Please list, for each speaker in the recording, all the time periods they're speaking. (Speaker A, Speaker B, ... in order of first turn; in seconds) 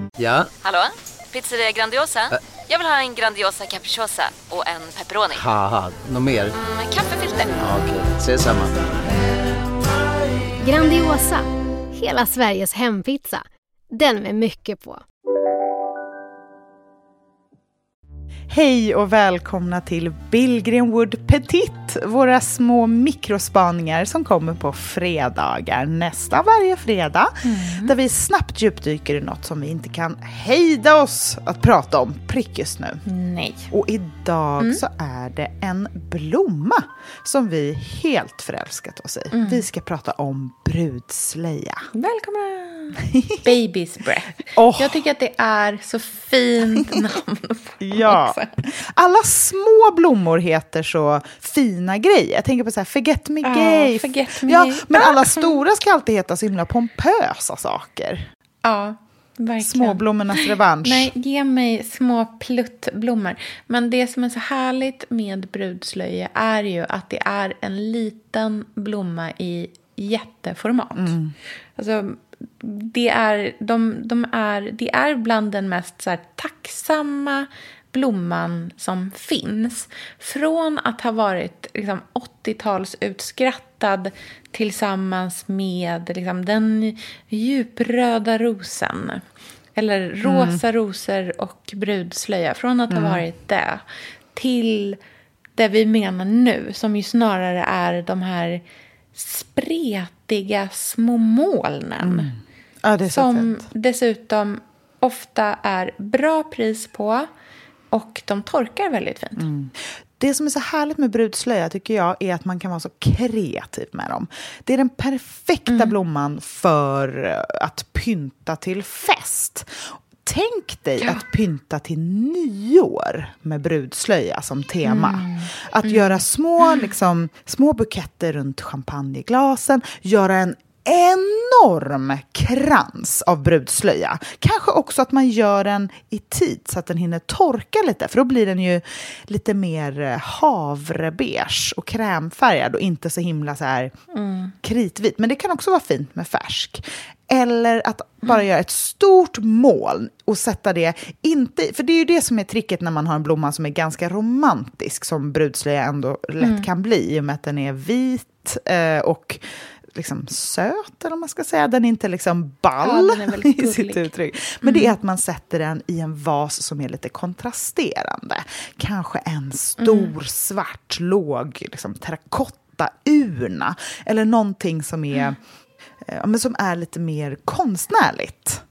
Speaker A: 0.2-0.5, 5.3-6.5, 7.6-8.7
Speaker B: 0.6-5.4, 6.5-7.6
Speaker C: 10.6-11.5, 12.0-15.0
Speaker D: 18.5-27.3, 27.8-33.0, 33.7-41.9, 43.0-43.5, 44.5-45.0, 46.8-47.0, 47.8-58.2, 59.6-61.1, 70.9-71.3, 90.2-90.6, 92.9-93.2, 102.0-103.7, 109.4-143.9, 144.6-159.4, 159.9-175.4, 176.0-178.6
Speaker E: 27.4-27.9, 33.1-33.7, 39.3-39.6, 41.9-48.5, 53.4-55.6, 58.6-71.2, 71.8-89.2, 89.8-93.8, 94.3-95.0, 95.5-98.6, 99.1-102.3, 103.1-107.2, 107.9-109.5, 115.7-115.9, 124.8-126.2, 144.1-144.5, 156.4-156.7, 162.8-164.9, 169.8-170.1